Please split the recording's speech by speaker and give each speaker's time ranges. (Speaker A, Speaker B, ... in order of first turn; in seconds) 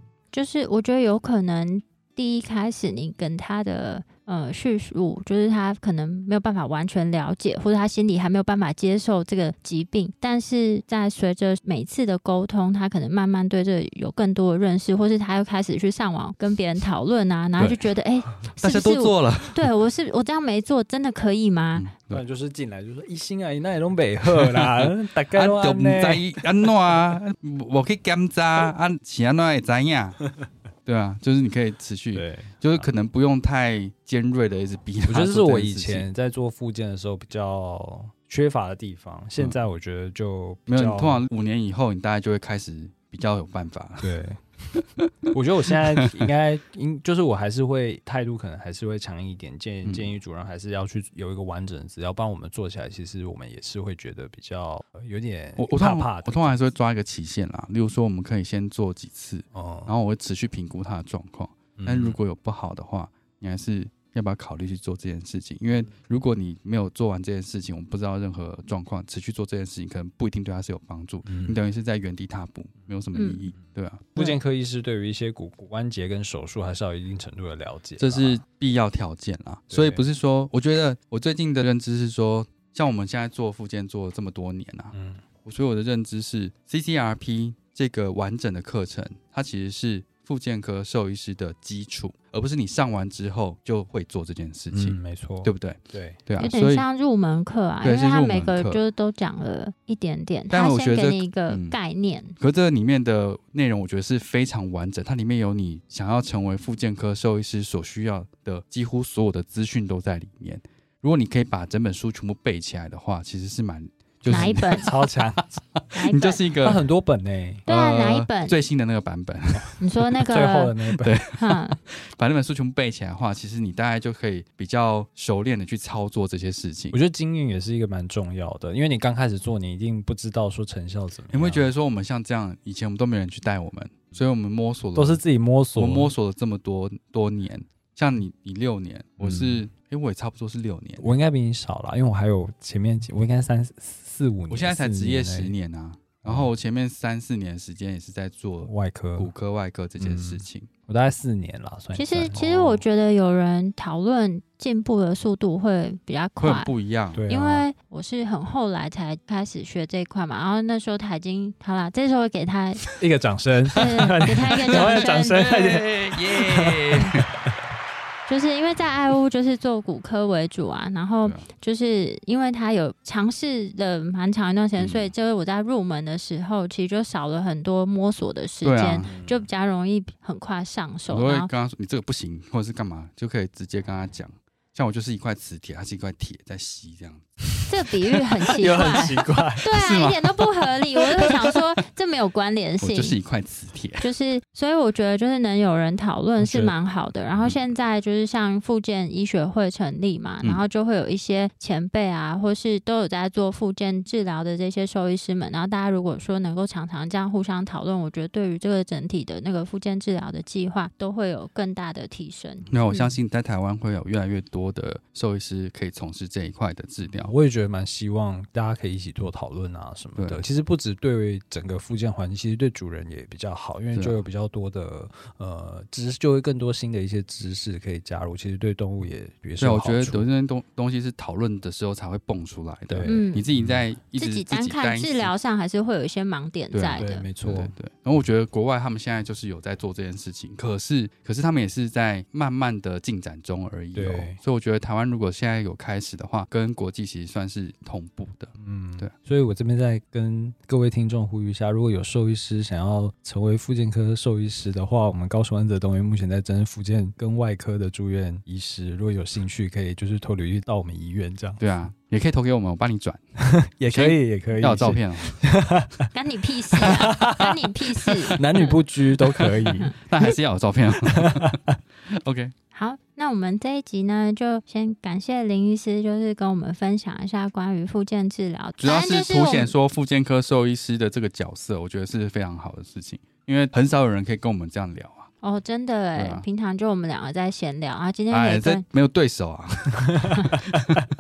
Speaker A: 0.3-21.9, 73.2-73.4, 96.4-102.3, 114.3-114.9, 115.9-116.4, 117.7-118.5, 119.8-120.8, 121.4-121.8, 151.9-156.7, 157.3-162.9, 163.7-165.4, 168.3-181.5, 187.7-193.2, 194.0-213.1, 233.1-233.5, 234.2-237.3, 266.1-268.7, 272.7-279.7, 285.4-288.8
Speaker B: 17.6-19.7, 21.8-22.2, 24.3-30.2, 30.9-36.1, 40.7-44.1, 44.8-45.3, 49.8-50.1, 55.6-74.3, 78.0-96.9, 97.8-98.8, 100.5-101.8, 102.4-116.9, 117.7-127.0, 131.3-135.2, 135.8-141.1, 144.5-150.7, 156.4-157.2, 164.0-167.3, 174.8-175.1, 178.6-179.2, 181.1-187.7, 188.6-190.5, 192.8-194.1, 212.7-217.3, 220.2-220.4, 229.6-235.3, 236.7-249.1, 261.6-263.2, 263.9-265.4, 269.4-271.6, 272.1-272.5, 278.8-285.3, 286.1-286.4, 288.3-291.1
Speaker C: 22.1-26.4, 32.1-32.9, 35.1-41.2, 44.0-56.6, 59.5-59.9, 61.8-62.2, 71.3-71.6, 74.2-78.4, 79.7-80.0, 84.9-85.2, 94.7-96.2, 114.3-115.5, 116.6-117.7, 119.5-121.2, 126.9-131.7, 134.9-136.1, 139.2-139.7, 141.0-145.6, 146.2-146.5, 148.6-149.3, 150.0-152.8, 157.1-157.7, 163.0-167.5, 179.0-179.5, 188.6-189.7, 196.4-196.7, 217.1-230.2, 232.9-233.8, 236.9-237.7, 243.9-244.4, 248.6-261.6, 263.4-266.1, 266.8-270.3, 271.1-271.8